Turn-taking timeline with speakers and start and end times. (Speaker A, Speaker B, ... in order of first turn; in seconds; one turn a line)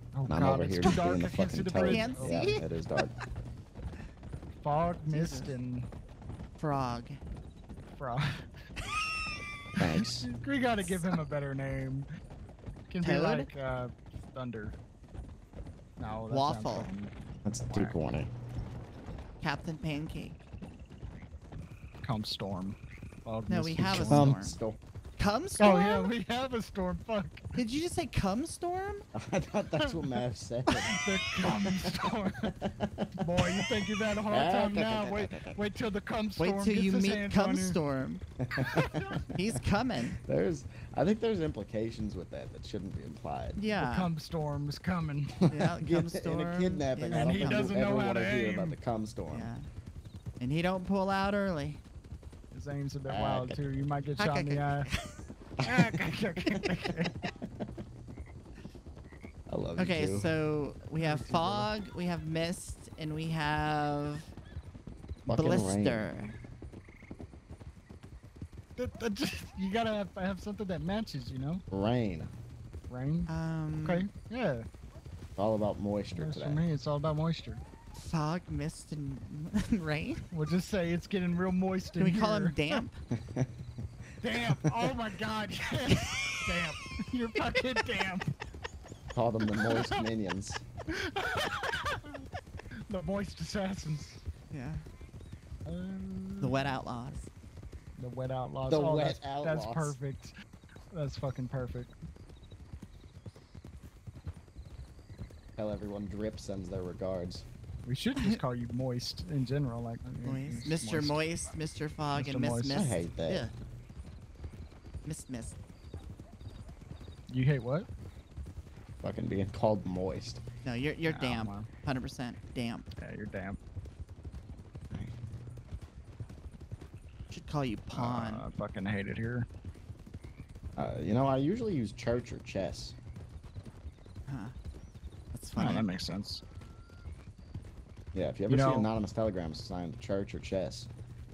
Speaker A: 0.1-2.6
Speaker B: 0.2-3.1
Speaker C: 1.9-2.6
Speaker A: 4.6-5.9
Speaker C: 5.1-5.5
Speaker C: 6.6-7.2
Speaker A: 7.9-8.5
Speaker B: 9.8-10.3
Speaker A: 10.0-12.1
Speaker A: 12.9-14.8
Speaker C: 13.0-13.5
Speaker A: 16.0-17.2
Speaker C: 16.3-16.9
Speaker B: 17.4-18.3
Speaker A: 17.7-18.0
Speaker C: 19.4-20.4
Speaker A: 22.0-24.3
Speaker C: 23.5-24.6
Speaker B: 23.9-24.8
Speaker C: 25.2-26.1
Speaker A: 25.6-27.6
Speaker C: 27.6-29.1
Speaker B: 29.1-35.6
Speaker A: 30.9-32.5
Speaker A: 33.2-37.8
Speaker C: 36.4-38.2
Speaker B: 38.4-39.2
Speaker A: 38.5-39.3
Speaker C: 39.3-40.2
Speaker B: 40.1-43.6
Speaker C: 43.6-44.1
Speaker A: 43.7-45.5
Speaker C: 45.5-47.8
Speaker B: 45.5-49.5
Speaker A: 47.1-48.8
Speaker C: 49.3-49.6
Speaker C: 50.4-51.8
Speaker A: 52.5-54.9
Speaker B: 53.1-53.6
Speaker C: 54.2-55.2
Speaker B: 55.6-56.6
Speaker A: 55.6-57.2
Speaker B: 59.5-60.3
Speaker C: 59.8-64.3
Speaker A: 61.0-61.7
Speaker B: 65.3-66.1
Speaker C: 65.3-66.3
Speaker A: 68.8-71.6
Speaker B: 71.7-72.3
Speaker A: 72.9-73.3
Speaker C: 73.3-74.1
Speaker A: 73.8-74.7
Speaker B: 75.4-76.6
Speaker A: 76.2-77.6
Speaker C: 77.9-80.3
Speaker A: 80.3-82.8
Speaker C: 82.0-83.0
Speaker B: 83.2-83.5
Speaker A: 84.2-88.3
Speaker B: 84.3-84.9
Speaker B: 89.1-90.6
Speaker A: 89.6-90.0
Speaker A: 90.9-92.2
Speaker A: 92.9-94.2
Speaker C: 94.5-94.9
Speaker A: 95.7-96.8
Speaker C: 96.4-97.3
Speaker A: 98.0-100.3
Speaker B: 98.7-100.0
Speaker A: 100.9-102.0
Speaker B: 105.6-107.5
Speaker A: 107.8-111.3
Speaker C: 110.2-113.5
Speaker A: 112.2-112.9
Speaker B: 112.7-113.5
Speaker C: 115.0-115.6
Speaker A: 117.3-117.9
Speaker B: 119.0-120.4
Speaker C: 120.6-122.9
Speaker A: 121.1-121.7
Speaker A: 123.0-123.6
Speaker C: 127.3-128.4
Speaker A: 127.9-129.5
Speaker B: 130.8-133.0
Speaker C: 134.3-134.6
Speaker C: 135.3-135.8
Speaker A: 135.6-136.4
Speaker B: 138.1-140.9
Speaker A: 138.5-138.9